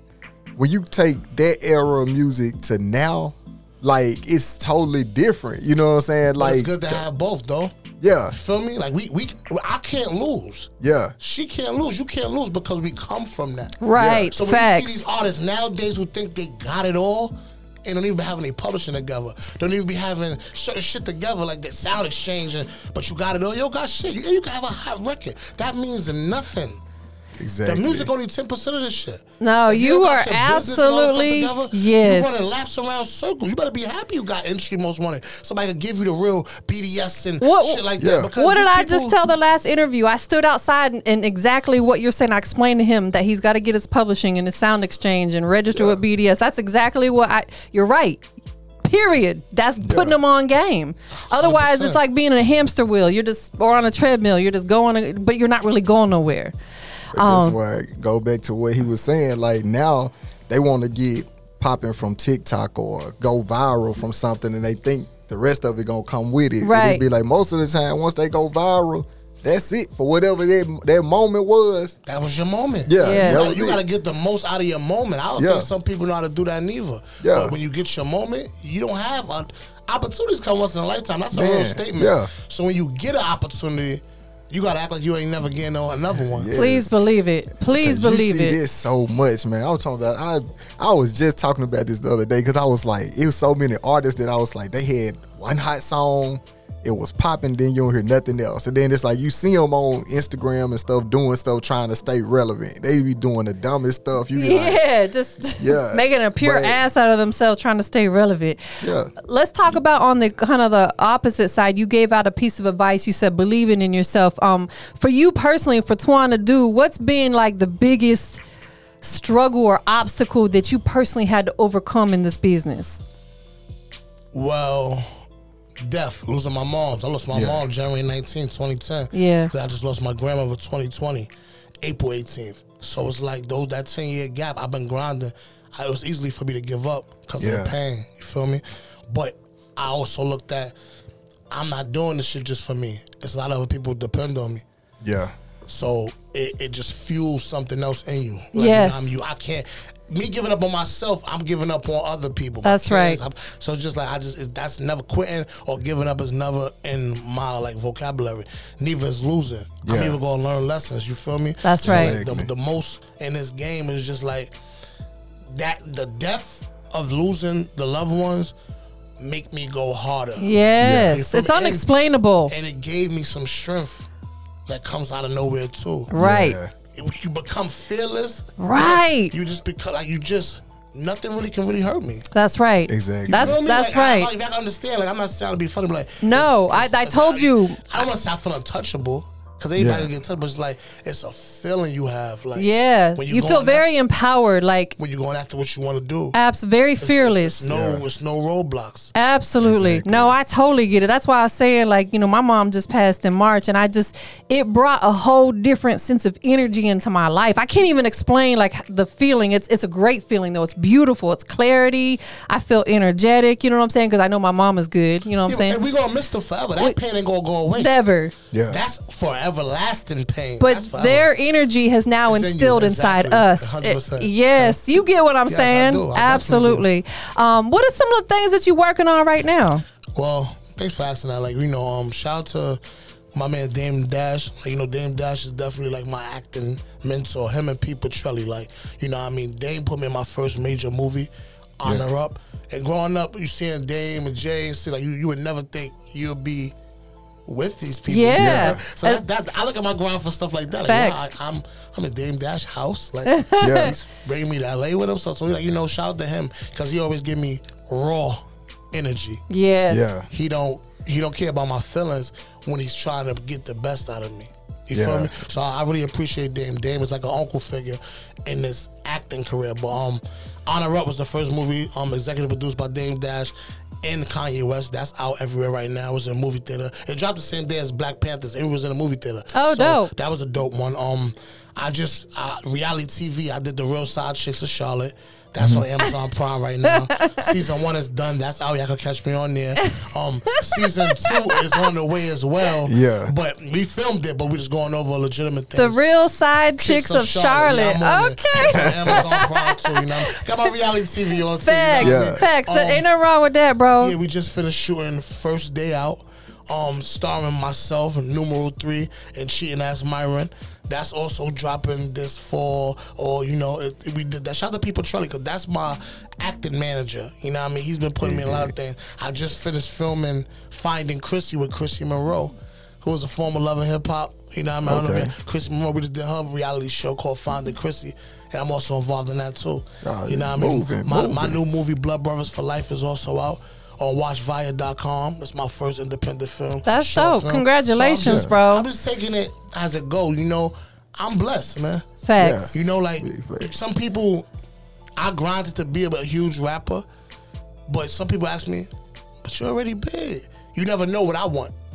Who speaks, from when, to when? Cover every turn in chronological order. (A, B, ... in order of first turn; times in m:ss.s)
0:00.6-0:07.0 A
0:06.4-0:07.7 B
0:08.0-0:08.4 A
0:08.3-0:13.8 B
0:10.8-0:11.1 A
0:13.8-0:15.0 C
0:13.9-0:14.3 A
0:14.3-0:26.8 B
0:27.4-0:28.1 A
0:27.6-0:39.2 B
0:29.4-0:32.4 C
0:37.4-0:37.8 C
0:38.0-0:38.3 A
0:38.4-0:48.2 C
0:45.7-0:46.0 A
0:48.8-0:56.5 C
0:49.8-0:50.2 A
0:51.4-0:52.0 B
0:57.1-1:11.9 A
0:57.1-0:57.6 C
1:06.6-1:07.0 C
1:12.0-1:26.5 B
1:12.9-1:13.8 A
1:13.0-1:13.5 C
1:15.4-1:15.7 A
1:17.2-1:17.6 A
1:21.3-1:22.3 A
1:26.3-1:26.9 A
1:26.5-1:28.6 C
1:27.6-1:44.8 A
1:44.3-1:58.4 C
1:45.6-1:46.8 A
1:48.8-1:49.1 A
1:59.0-2:03.0 C
2:04.3-2:05.1 B
2:05.8-2:11.3 B
2:07.3-2:07.6 A
2:09.1-2:09.5 C
2:11.8-2:20.8 B
2:17.4-2:17.7 A
2:21.5-2:24.6 B
2:25.0-2:25.3 A
2:25.6-2:44.5 B
2:28.5-2:29.1 C
2:32.6-2:33.2 C
2:39.8-2:40.2 A
2:41.6-2:42.2 C
2:41.8-2:42.5 A
2:45.5-2:48.5 B
2:49.2-2:51.9 B
2:50.4-2:52.5 C
2:50.8-2:51.1 A
2:52.5-2:54.1 B
2:54.7-2:56.1 B
2:56.1-2:56.6 C
2:56.1-2:56.7 A
2:56.9-3:02.2 B
2:58.6-2:59.3 C
3:02.3-3:04.3 C
3:02.9-3:03.6 A
3:03.3-3:13.9 B
3:06.2-3:08.0 C
3:09.8-3:10.1 A
3:12.6-3:14.9 C
3:15.0-3:16.4 B
3:16.3-3:17.6 C
3:17.0-3:19.1 B
3:17.7-3:18.0 A
3:19.1-3:35.8 C
3:19.6-3:20.3 A
3:35.4-3:37.9 B
3:37.8-3:38.3 C
3:38.5-3:38.8 A
3:38.7-3:41.3 B
3:40.6-3:49.8 C
3:42.3-3:44.8 B
3:45.5-3:46.9 B
3:50.2-3:52.8 B
3:53.3-4:06.8 B
4:07.5-4:19.4 B
4:08.1-4:09.2 C
4:08.4-4:08.8 A
4:10.9-4:11.3 C
4:13.2-4:13.9 C
4:13.6-4:14.0 A
4:19.5-4:20.2 C
4:19.9-4:20.3 A
4:20.3-4:56.0 B
4:24.9-4:25.3 A
4:39.5-4:40.1 C
4:45.6-4:45.9 A
4:46.8-4:47.5 C
4:49.8-4:51.8 C
4:52.8-4:53.3 A
4:55.8-5:00.7 C
4:56.8-5:03.0 B
5:01.6-5:04.1 C
5:02.0-5:02.4 A
5:04.0-5:42.1 B
5:18.2-5:18.7 A
5:24.9-5:25.3 A
5:30.0-5:31.6 A
5:36.8-5:38.9 C
5:38.2-5:38.5 A
5:42.2-5:42.7 C
5:42.4-5:43.7 A
5:42.7-5:44.5 B
5:45.2-5:47.0 B
5:47.9-5:48.9 B
5:49.4-5:51.7 B